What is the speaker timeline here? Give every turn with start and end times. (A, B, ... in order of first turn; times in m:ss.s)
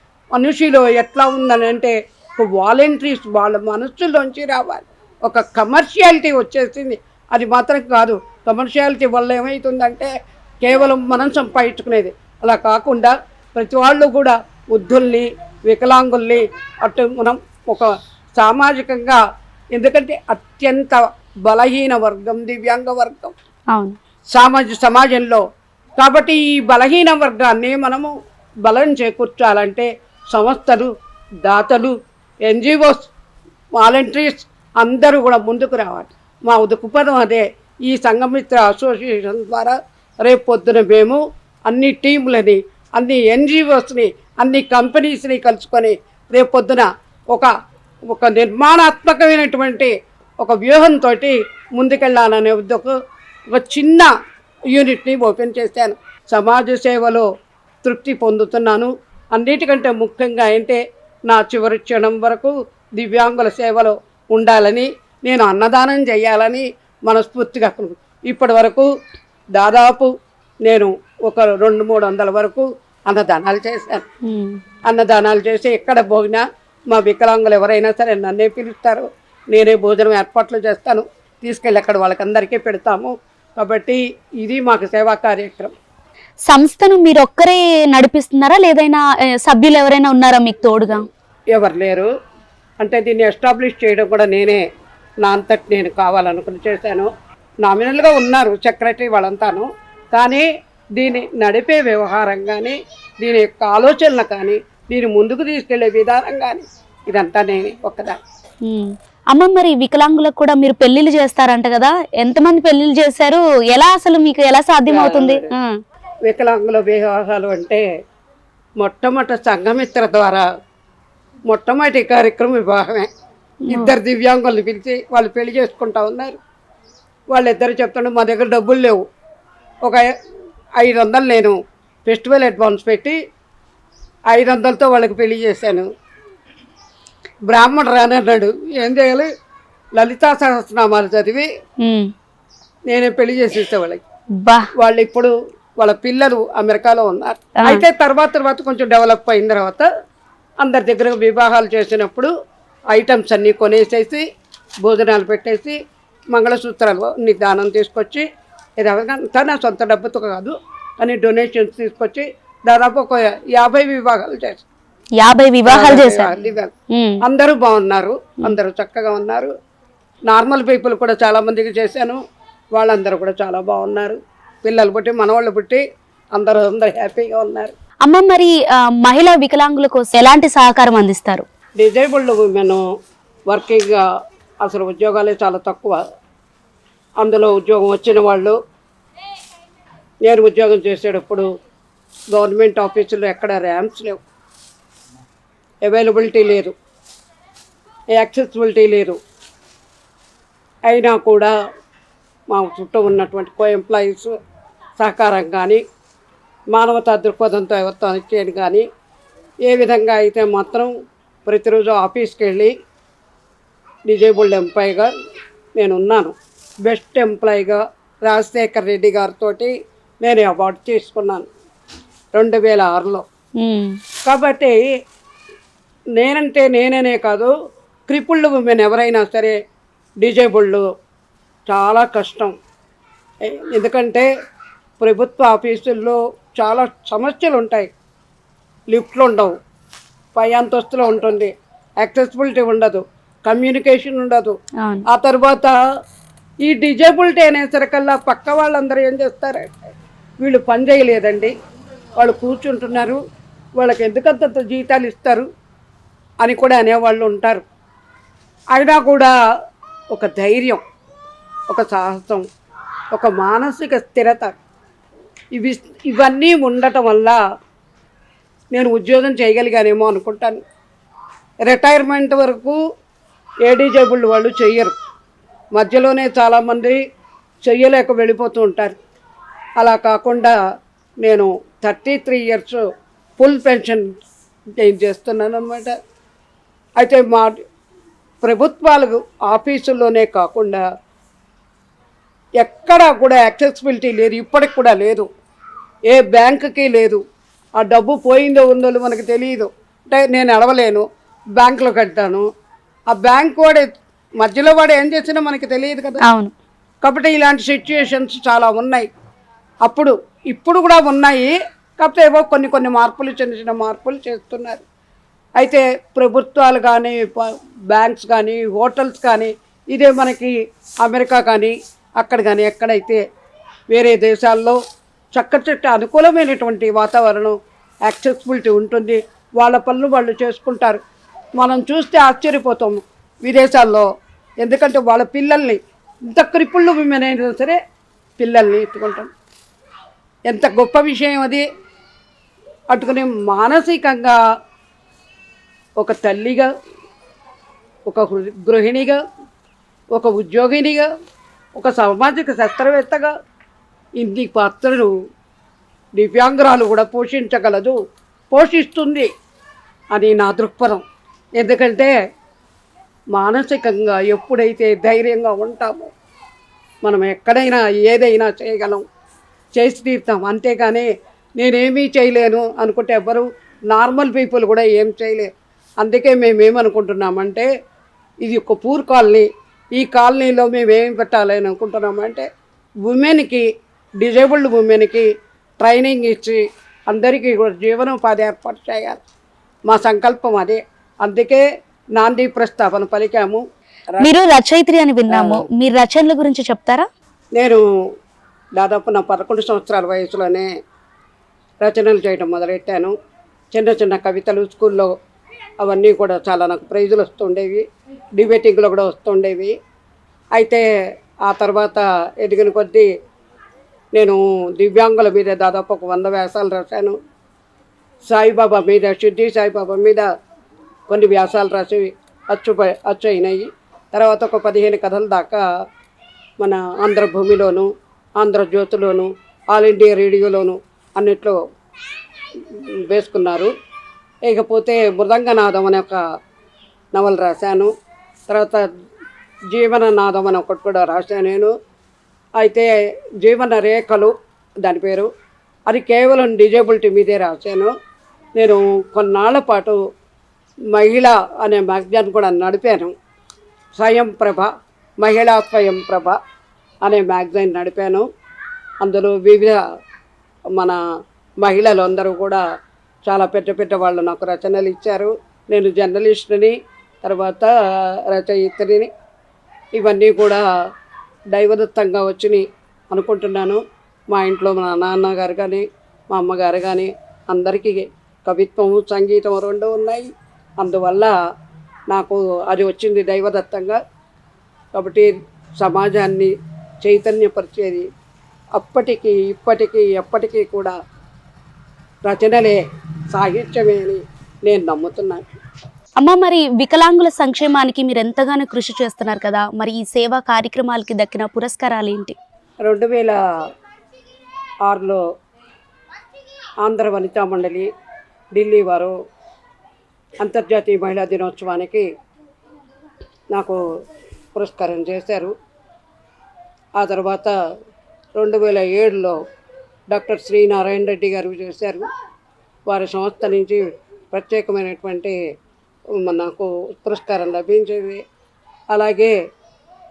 0:00.3-0:10.1 A
0:10.6-0:19.2 A
0:19.7-0:23.3 A
0:23.7-0:24.0 B
0:24.3-0:25.4 A
0:26.0-0:28.1 A
0:28.6-0:30.9 A
0:31.4-0:31.9 A
0:32.5-0:33.1 A
0:33.8-0:47.5 A
0:48.1-0:52.9 A
0:53.5-0:54.1 A
0:54.7-0:57.3 A
0:57.8-1:08.9 A
1:09.6-1:10.1 A
1:10.6-1:14.0 A
1:14.2-1:14.6 B
1:14.9-1:25.7 A
1:26.5-1:31.1 B
1:31.5-1:32.1 A
1:32.8-1:34.6 A
1:35.2-1:37.1 A
1:37.6-1:48.2 A
1:48.6-1:55.8 B
1:54.9-1:55.5 A
1:56.3-1:57.8 A
1:58.8-2:00.4 A
2:01.5-2:03.1 A
2:03.7-2:04.0 B
2:03.7-2:06.4 A
2:07.3-2:09.0 A
2:10.8-2:13.2 A
2:14.3-2:15.9 A
2:17.5-2:19.3 A
2:20.0-2:21.5 A
2:21.8-2:22.1 B
2:22.9-2:24.0 A
2:24.4-2:24.7 B
2:24.8-2:29.9 A
2:27.6-2:27.8 B
2:30.6-2:32.3 A
2:32.9-2:34.2 A
2:34.8-2:35.8 A
2:36.3-2:38.3 A
2:38.8-2:44.7 A
2:45.2-2:46.3 B
2:45.7-2:49.5 A
2:46.9-2:47.2 B
2:50.3-2:52.2 A
2:52.8-2:55.8 A
2:56.4-2:57.7 A
2:58.0-3:01.4 B
3:01.8-3:02.8 A
3:03.5-3:04.0 A
3:04.6-3:06.0 A
3:07.2-3:08.6 A
3:10.2-3:11.5 A
3:12.3-3:14.2 A
3:15.8-3:16.7 A
3:18.2-3:19.2 A
3:20.9-3:21.5 A
3:22.5-3:24.3 A
3:25.0-3:25.8 A
3:26.7-3:28.9 A
3:29.7-3:30.9 A
3:31.5-3:32.7 A
3:34.1-3:35.1 A
3:35.8-3:41.5 A
3:42.4-3:43.2 A
3:43.6-3:44.0 B
3:44.3-3:44.8 A
3:46.2-3:47.5 A
3:48.1-3:49.6 A
3:50.2-3:50.8 A
3:51.7-3:52.5 A
3:53.5-3:54.3 A
3:55.0-3:57.9 A
3:58.9-3:59.6 A
4:00.4-4:04.6 A
4:04.8-4:05.0 B
4:05.1-4:05.8 A
4:06.6-4:09.7 A
4:10.4-4:11.5 A
4:12.2-4:13.2 A
4:13.8-4:15.5 A
4:16.4-4:17.6 A
4:18.7-4:19.3 A
4:20.1-4:20.8 A
4:21.7-4:22.4 A
4:23.1-4:24.6 A
4:25.6-4:27.4 A
4:28.7-4:30.6 A
4:31.7-4:32.8 A
4:33.7-4:34.9 A
4:35.8-4:37.0 A
4:37.7-4:39.0 A
4:39.8-4:40.6 A
4:41.2-4:42.8 A
4:43.4-4:44.1 A
4:44.8-4:46.0 A
4:47.0-4:47.6 A
4:48.4-4:50.8 A
4:52.6-4:55.3 A
4:56.1-4:57.2 A
4:57.8-5:01.1 A
5:01.6-5:02.5 A
5:03.1-5:03.9 A
5:04.4-5:06.2 A
5:06.2-5:06.5 B
5:07.0-5:09.1 A
5:09.8-5:14.8 A
5:15.6-5:23.2 A
5:23.9-5:24.8 A
5:25.4-5:31.0 A
5:31.6-5:34.1 A
5:34.6-5:35.8 A
5:36.3-5:37.8 A
5:38.4-5:39.3 A
5:40.5-5:41.6 A
5:42.9-5:44.4 A
5:46.0-5:46.7 A
5:48.1-5:49.2 A
5:50.2-5:51.1 A
5:51.8-5:53.3 A
5:54.2-5:55.1 A
5:56.2-5:58.0 A
5:58.5-5:59.3 A
6:00.1-6:01.0 A
6:01.6-6:02.1 A
6:03.3-6:06.1 A
6:07.0-6:09.0 A
6:09.8-6:11.1 A
6:11.6-6:15.5 A
6:16.0-6:17.7 A
6:18.4-6:22.5 A
6:23.0-6:23.7 A
6:24.2-6:25.3 A
6:25.8-6:29.2 A
6:29.9-6:31.6 A
6:32.2-6:33.6 A
6:34.2-6:37.1 B
6:35.3-6:35.6 A
6:37.6-6:37.8 A
6:38.8-6:40.7 A
6:41.8-6:43.1 A
6:43.7-6:45.1 A
6:45.8-6:47.8 A
6:48.4-6:49.8 A
6:50.6-6:50.8 A
6:51.4-6:53.1 A
6:54.2-6:57.2 A
6:58.3-7:00.3 A
7:01.1-7:05.6 A
7:06.6-7:07.9 A
7:08.4-7:11.6 A
7:13.1-7:13.7 A
7:14.5-7:16.2 A
7:17.2-7:17.9 A
7:18.5-7:18.8 A
7:19.7-7:21.7 A
7:22.6-7:22.9 A
7:23.4-7:24.3 A
7:24.8-7:25.3 A
7:25.9-7:27.9 A
7:28.6-7:30.0 A
7:30.9-7:33.1 A
7:34.0-7:36.4 A
7:37.0-7:38.3 A
7:39.0-7:39.8 A
7:41.6-7:42.6 A
7:43.3-7:46.7 A
7:47.2-7:47.7 A
7:48.3-7:49.1 A
7:50.0-7:50.6 A
7:51.5-7:53.8 A
7:54.3-8:00.3 A
8:00.8-8:01.3 A
8:02.1-8:04.0 A
8:05.0-8:06.5 A
8:07.0-8:08.1 A
8:08.8-8:11.0 A
8:12.3-8:12.8 A
8:13.3-8:15.4 A
8:16.2-8:22.4 B
8:22.8-8:23.4 A
8:24.9-8:25.2 A
8:26.8-8:27.9 A
8:28.6-8:29.2 A
8:30.4-8:32.1 A
8:33.5-8:33.8 A
8:34.6-8:35.5 A
8:37.0-8:37.5 A
8:38.4-8:39.4 A
8:40.1-8:42.1 A
8:42.9-8:45.4 A
8:46.2-8:48.2 A
8:48.9-8:49.3 A